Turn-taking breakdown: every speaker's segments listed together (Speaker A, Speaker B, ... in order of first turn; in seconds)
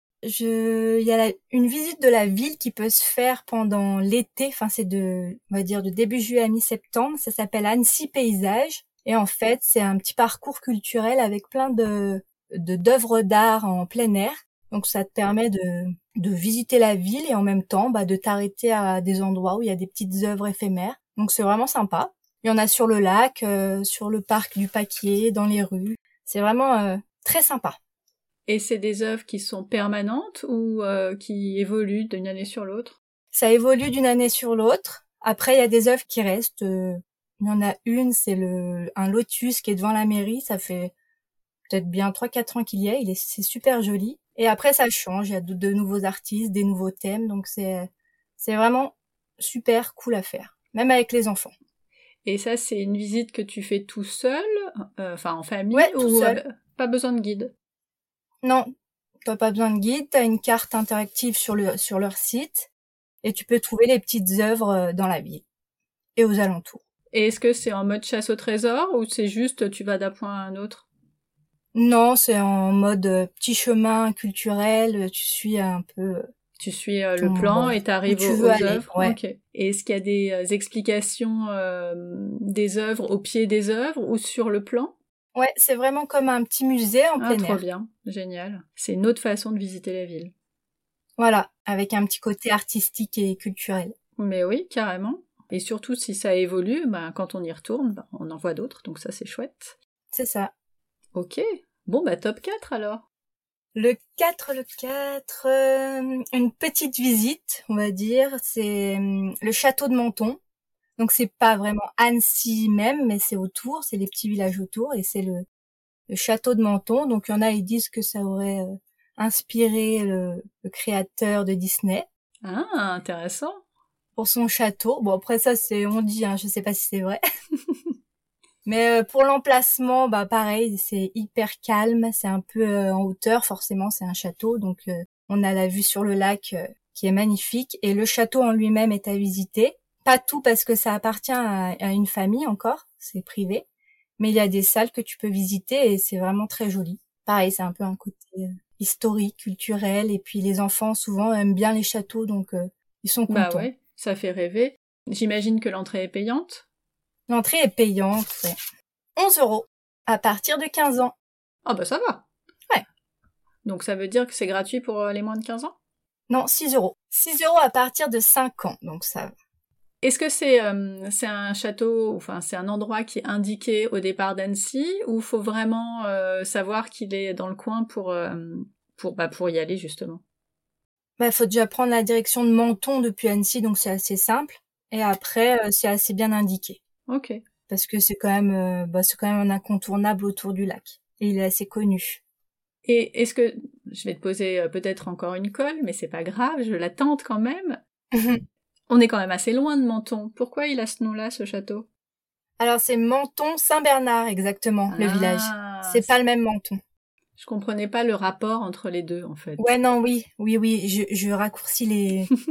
Speaker A: 0.2-27.8, 33.3-40.9, 41.7-51.5, 55.7-56.4, 59.2-62.7, 63.2-65.4, 66.1-66.8, 71.7-76.2, 77.2-79.2, 85.3-87.6, 91.2-93.9, 100.1-100.5, 103.7-110.4, 111.0-115.5, 116.1-122.0, 124.2-127.2, 128.6-143.7, 144.2-153.7, 157.3-158.6, 159.2-161.1, 166.3-169.3, 181.2-186.8, 187.7-192.2, 198.1-198.4, 202.6-206.8, 209.6-212.3
Speaker B: 28.5-33.0, 52.2-54.5, 55.0-57.5, 67.1-70.9, 76.6-84.9, 87.2-90.3, 94.2-99.8, 101.1-103.0, 122.4-123.6, 153.3-156.6, 161.6-162.3, 163.6-165.7, 170.0-180.2, 187.1-187.4, 192.8-197.8, 198.9-201.9, 204.9-206.1, 207.4-209.7